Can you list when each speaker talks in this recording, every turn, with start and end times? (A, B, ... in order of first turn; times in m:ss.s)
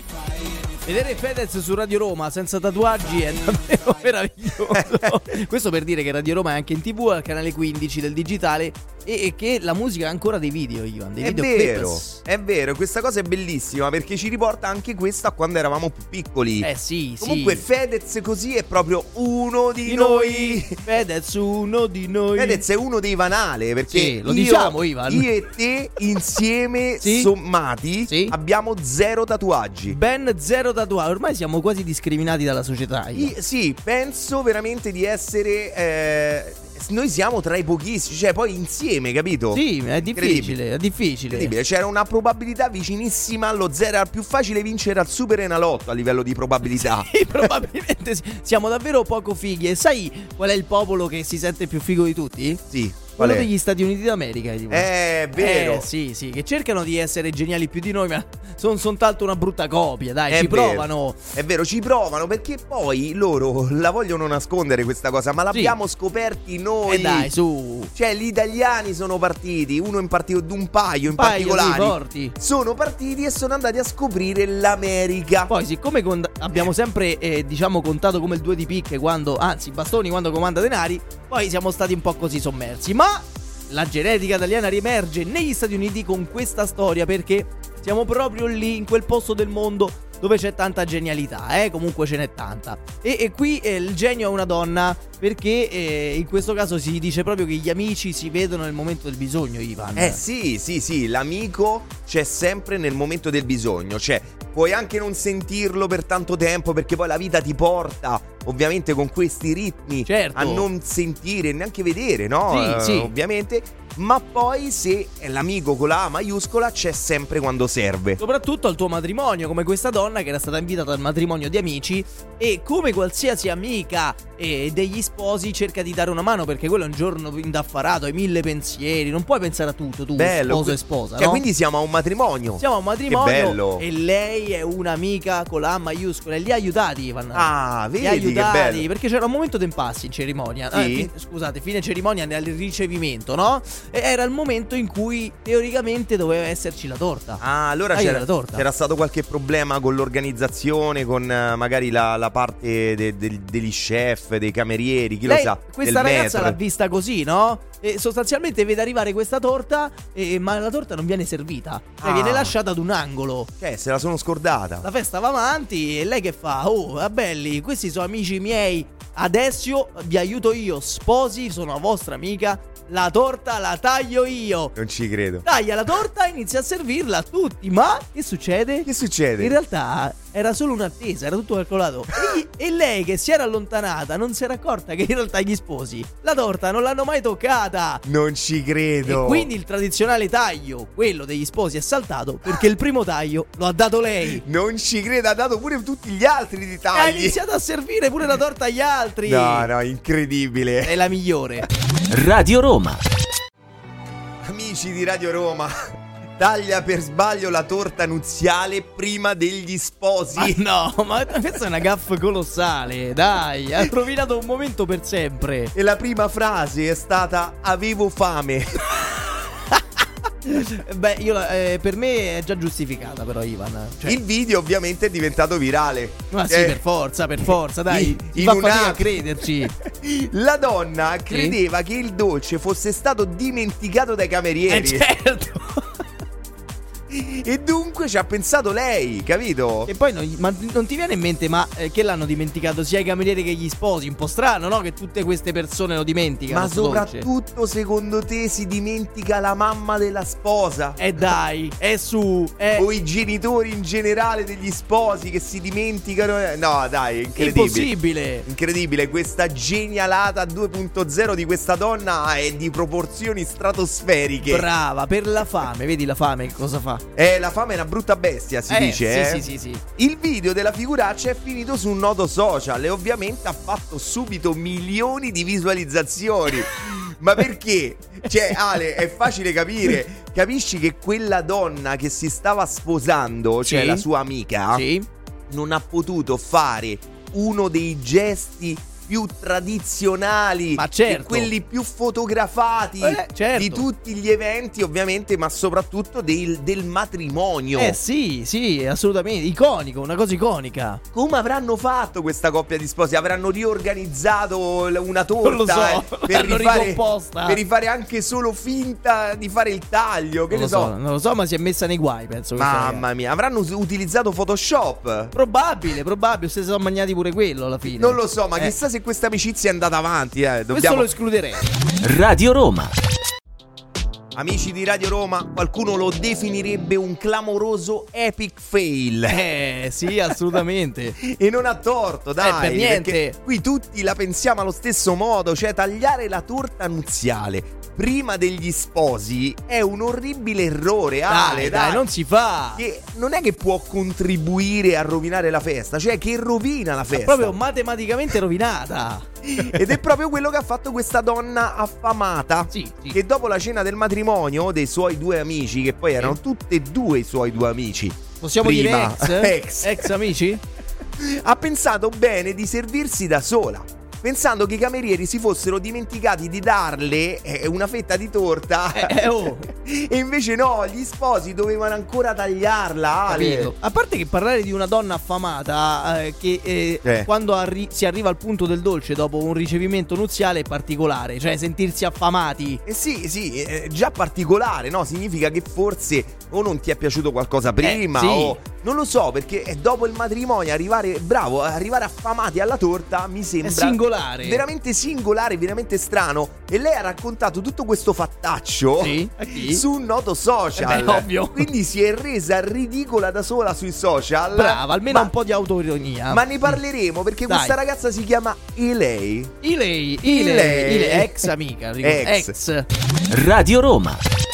0:00.8-0:12.2 A
0:04.8-0:05.1 B
0:11.2-0:16.7 B
0:16.6-0:17.6 A
0:17.2-0:20.8 B
0:19.9-0:22.6 A
0:22.4-0:30.0 B
0:23.9-0:25.3 A
0:27.0-0:27.3 A
0:28.1-0:28.3 A
0:29.9-0:33.3 A
0:33.1-0:40.6 B
0:39.5-0:41.5 A
0:41.3-0:47.1 B
0:46.7-0:52.6 A
0:52.7-0:53.5 B
0:53.2-1:01.2 A
0:54.7-0:55.9 B
1:00.3-1:07.3 B
1:05.5-1:05.8 A
1:06.9-1:07.9 A
1:07.9-1:15.5 B
1:11.1-1:12.3 A
1:15.5-1:40.2 A
1:40.0-1:58.2 B
1:50.0-1:50.7 A
1:52.5-1:53.1 A
1:58.2-2:11.4 A
2:10.2-2:13.8 B
2:12.6-2:27.4 A
2:17.3-2:18.8 B
2:20.7-2:21.1 B
2:27.4-2:36.6 B
2:27.9-2:28.6 A
2:35.2-2:43.5 A
2:42.0-2:42.5 B
2:43.6-2:44.8 B
2:44.8-2:54.7 A
2:54.8-2:55.5 B
2:55.4-3:08.0 A
2:58.8-2:59.5 B
3:08.0-3:09.5 B
3:09.0-3:14.4 A
3:14.4-3:17.4 B
3:16.9-3:19.7 A
3:19.2-3:21.0 B
3:20.8-3:21.7 A
3:22.1-3:23.0 C
3:24.4-3:30.6 B
3:30.4-3:35.7 A
3:35.7-3:39.0 B
3:39.7-3:44.2 A
3:44.0-3:46.8 B
3:46.3-3:49.7 A
3:47.9-3:55.0 B
3:51.3-3:51.6 A
3:54.7-3:56.0 A
3:57.1-3:59.9 B
3:59.9-4:07.3 A
4:06.5-4:11.0 B
4:11.0-4:12.8 A
4:12.8-4:17.9 B
4:17.4-4:18.5 A
4:18.4-4:24.7 B
4:24.5-4:27.0 A
4:27.2-4:29.5 B
4:28.7-4:29.8 A
4:30.0-4:44.8 B
4:43.7-4:44.0 A
4:44.7-4:45.0 A
4:45.5-4:58.0 B
4:50.8-4:51.5 A
4:53.0-4:53.8 A
4:57.8-5:01.0 A
5:01.1-5:10.9 B
5:05.4-5:07.6 A
5:10.5-5:13.0 A
5:12.6-5:15.3 B
5:15.3-5:18.8 A
5:17.8-5:21.1 B
5:20.7-5:21.6 A
5:22.0-5:22.9 C
5:24.3-5:29.4 B
5:29.3-5:31.2 A
5:31.2-5:42.0 B
5:32.4-5:33.4 A
5:41.3-5:42.8 A
5:42.8-5:47.5 B
5:47.1-5:49.7 A
5:49.5-6:00.2 B
5:52.7-5:53.2 A
5:58.4-6:00.6 A
6:01.2-6:13.7 B
6:08.9-6:09.7 A
6:13.3-6:22.8 A
6:17.0-6:17.3 B
6:22.8-6:45.3 B
6:27.8-6:28.6 A
6:33.6-6:34.6 A
6:39.0-6:39.8 A
6:40.8-6:41.7 A
6:44.5-6:46.8 A
6:46.3-6:49.5 B
6:47.5-6:47.8 A
6:49.6-6:52.8 A
6:50.2-6:51.5 B
6:52.0-6:52.5 B
6:53.3-6:54.2 C